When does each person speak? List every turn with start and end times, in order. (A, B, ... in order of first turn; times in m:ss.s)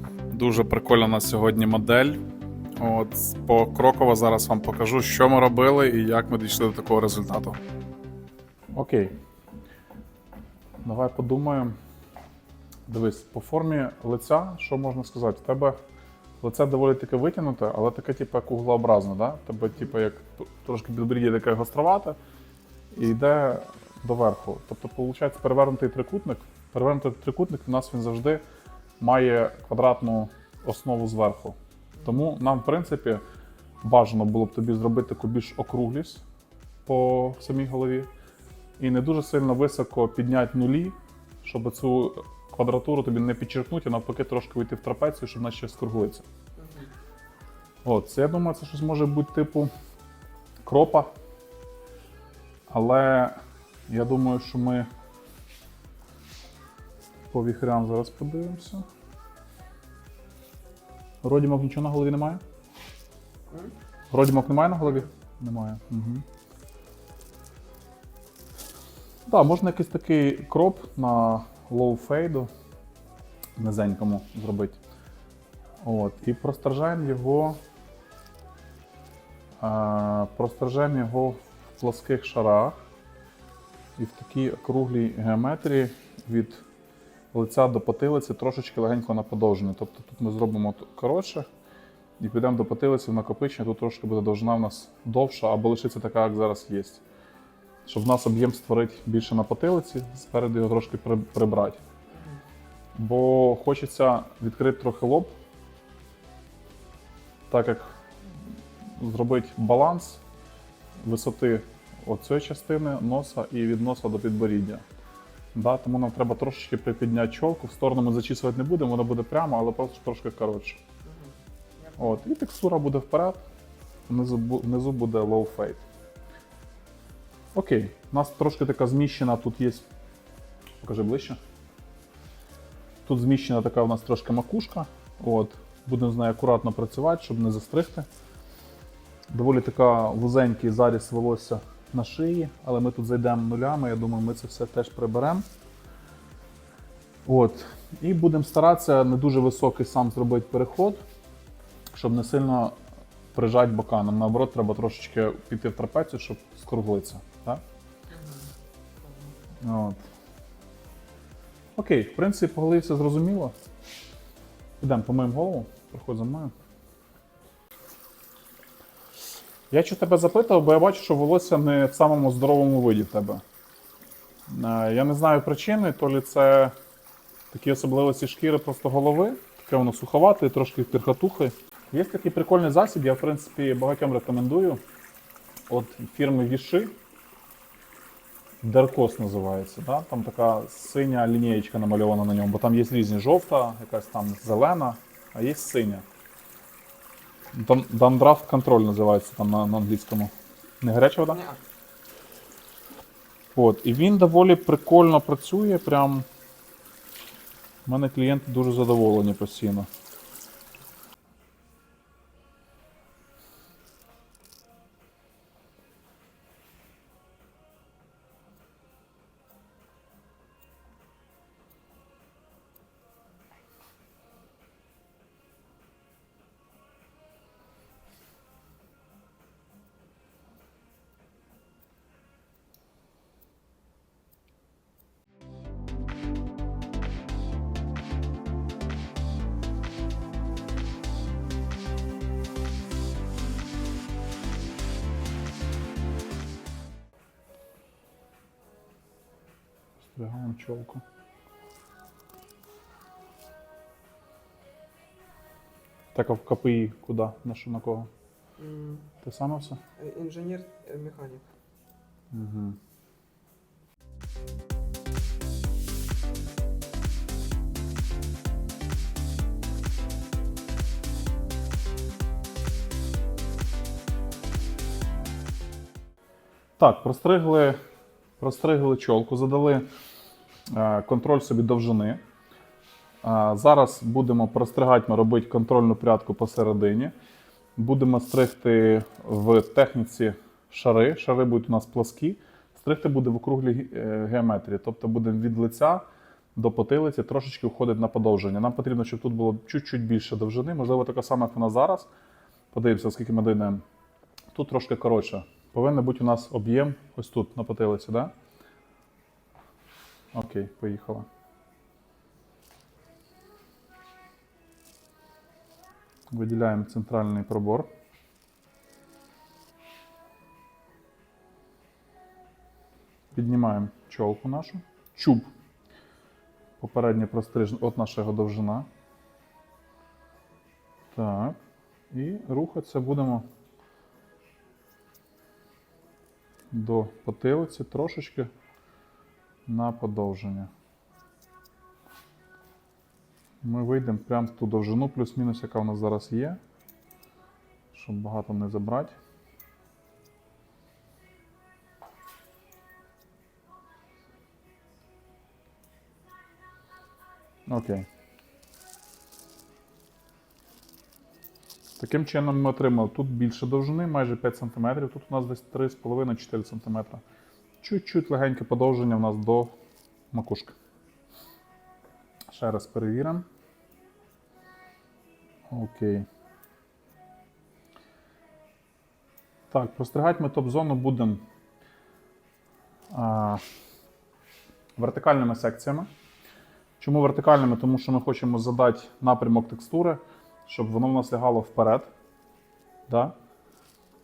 0:00.3-0:02.2 A
0:02.8-0:07.6 A
0:08.7-0:09.1 A
0:10.8-0:11.7 A
0:12.9-0:15.8 A
0:16.4-0:22.2 A
0:22.9-0:28.4 A
0:29.0-0:33.2 A
0:33.8-0:36.2 A
0:36.8-0:38.1 A
0:38.8-0:46.2 A
0:46.6-0:46.9 B
0:47.8-0:49.7 A
0:50.6-0:51.1 A
0:52.7-0:54.9 A
0:57.3-0:58.8 A
1:01.2-1:02.4 A
1:04.1-1:06.2 A
1:09.3-1:12.5 A
1:13.6-1:14.8 A
1:15.8-1:17.6 A
1:19.6-1:22.8 A
1:24.0-1:26.6 A
1:27.3-1:31.5 A
1:32.2-1:37.0 A
1:37.8-1:41.8 A
1:42.1-1:42.4 B
1:42.9-1:45.3 A
1:47.5-1:47.9 A
1:49.0-1:50.2 A
1:51.0-1:54.8 A
1:55.5-2:00.8 A
2:01.0-2:02.1 B
2:02.0-2:03.4 A
2:04.1-2:05.8 A
2:07.5-2:09.8 A
2:10.8-2:11.4 A
2:13.0-2:18.1 A
2:19.3-2:25.4 A
2:27.2-2:31.0 A
2:31.9-2:32.8 A
2:33.3-2:37.6 A
2:38.1-2:38.5 B
2:39.0-2:39.3 B
2:39.6-2:40.0 A
2:41.8-2:43.6 A
2:44.8-2:46.5 A
2:49.7-2:53.4 A
2:54.5-2:56.7 A
2:57.5-3:04.8 A
3:05.7-3:06.9 A
3:08.6-3:16.0 A
3:17.5-3:21.5 A
3:21.3-3:21.6 B
3:23.5-3:26.3 A
3:27.8-3:29.9 A
4:10.0-4:11.0 A
4:16.1-4:18.1 A
4:18.6-4:19.1 B
4:19.2-4:19.8 A
4:20.0-4:21.4 B
4:22.3-4:22.8 A
4:36.8-4:37.8 A
4:38.4-4:39.8 A
4:40.7-4:42.2 A
4:43.2-4:47.1 A
4:47.8-4:56.0 A
4:56.5-5:02.1 A
5:02.7-5:03.8 A
5:04.5-5:08.3 A
5:10.3-5:11.3 A
5:16.3-5:17.9 A
5:23.3-5:25.5 A
5:26.8-5:28.9 A
5:31.1-5:31.6 A
5:32.1-5:33.4 A
5:36.7-5:38.5 A
5:39.7-5:40.7 A
5:43.6-5:46.6 A
5:47.9-5:49.1 A
5:57.7-5:58.1 A
6:02.0-6:07.2 A
6:07.8-6:09.7 A
6:10.3-6:10.8 A
6:12.5-6:13.4 A
6:15.7-6:16.3 A
6:19.7-6:21.4 A
6:23.1-6:23.6 A
6:25.0-6:26.1 A
6:27.0-6:32.1 A
6:33.1-6:33.3 A